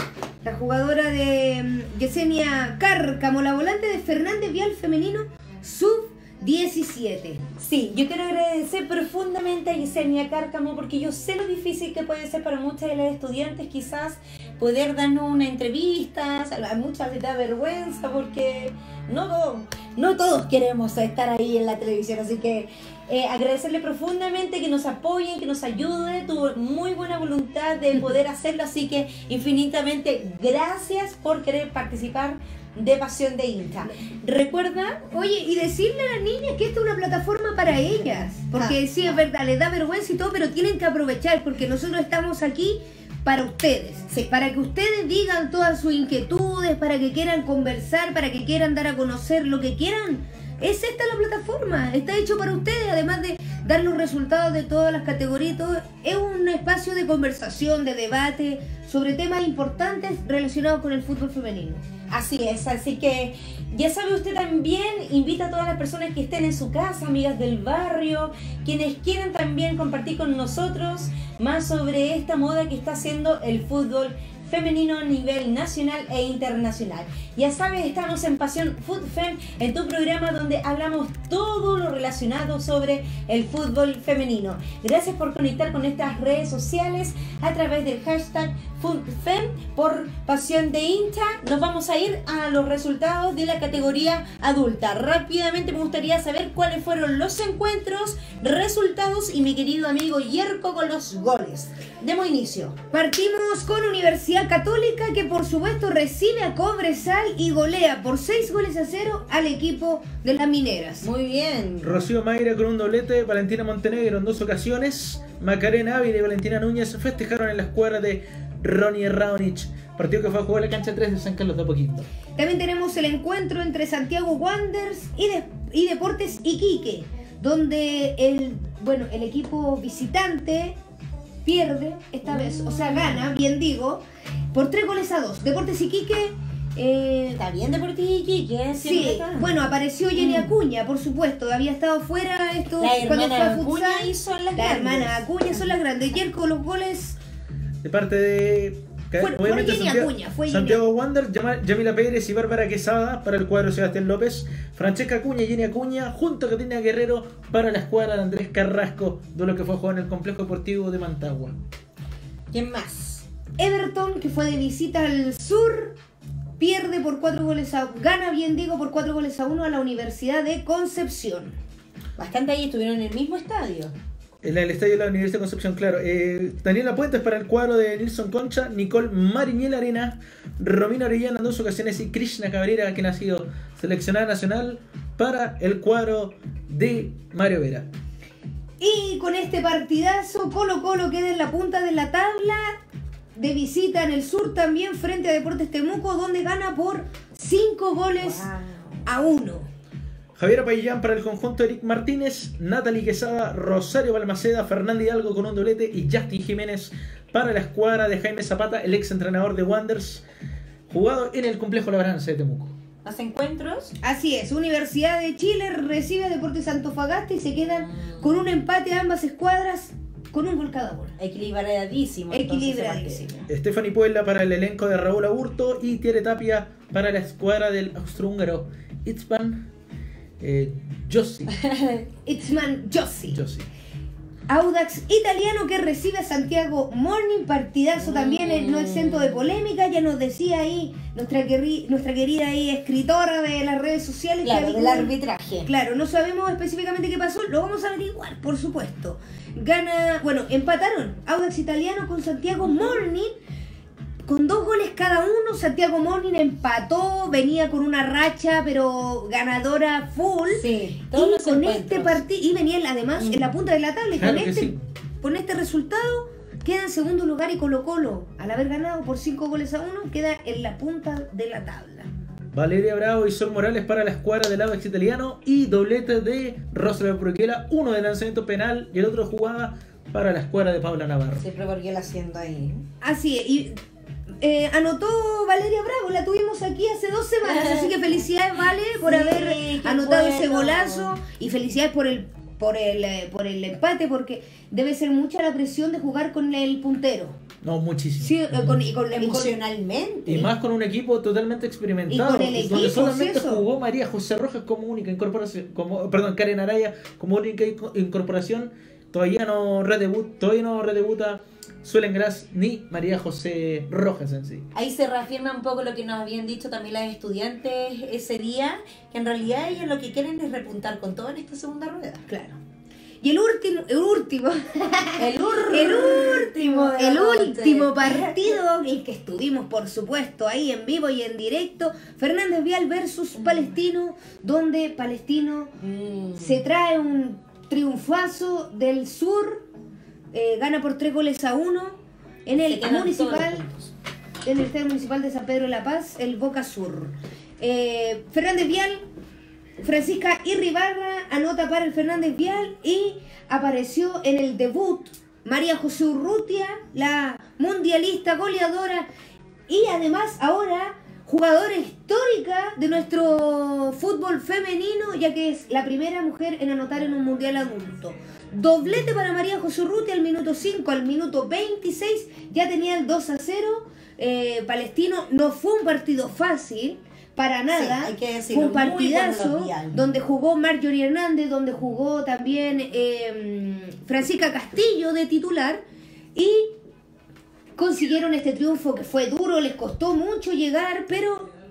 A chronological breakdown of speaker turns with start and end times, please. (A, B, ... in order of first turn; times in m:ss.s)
0:00.4-0:07.4 A
0:07.6-0:35.0 B
0:35.1-1:01.8 A
0:38.5-0:39.2 B
1:02.1-1:42.8 B
1:42.9-1:51.1 A
1:51.0-1:52.1 B
1:51.8-2:02.1 C
2:02.4-2:10.8 A
2:11.4-2:17.4 A
2:12.2-2:13.2 B
2:17.3-2:20.5 B
2:18.7-2:27.2 A
2:22.8-2:25.2 B
2:27.8-2:41.6 C
2:29.2-2:30.8 A
2:42.5-2:43.2 B
2:43.6-2:46.0 A
2:46.6-2:51.5 A
2:52.2-2:53.9 B
2:54.4-3:07.9 C
3:08.8-3:12.8 A
3:13.4-3:18.5 A
3:18.2-3:19.0 B
3:19.0-3:19.7 A
3:20.4-3:30.2 C
3:30.9-3:32.7 C
3:33.0-3:33.9 B
3:34.0-3:41.2 A
3:41.2-3:43.4 B
3:42.3-3:43.5 A
3:43.5-3:49.7 C
3:50.4-3:51.5 C
3:51.5-3:52.1 B
3:52.2-3:53.4 A
3:53.3-3:53.7 C
3:54.5-4:13.3 A
3:58.0-3:59.5 B
4:04.4-4:05.7 B
4:12.6-4:13.0 B
4:14.2-4:32.1 A
4:20.5-4:22.2 B
4:23.2-4:23.5 B
4:24.2-4:24.8 C
4:32.5-4:41.4 C
4:41.4-4:42.8 B
4:43.0-4:43.8 A
4:44.4-4:57.4 A
4:47.4-4:48.0 B
4:49.0-4:51.1 B
4:57.6-4:58.8 C
4:58.2-4:59.5 A
4:59.0-5:00.5 B
5:00.3-5:14.7 C
5:02.1-5:03.6 A
5:14.7-5:22.2 B
5:22.3-5:22.6 A
5:23.2-5:35.7 A
5:25.2-5:28.5 B
5:35.8-5:36.6 B
5:36.4-5:39.7 A
5:40.3-5:43.6 A
5:42.5-5:43.9 B
5:44.4-5:49.0 A
5:49.8-5:59.1 A
5:59.7-6:25.8 A
6:17.7-6:20.0 B
6:26.3-6:26.8 A
6:27.8-6:31.5 A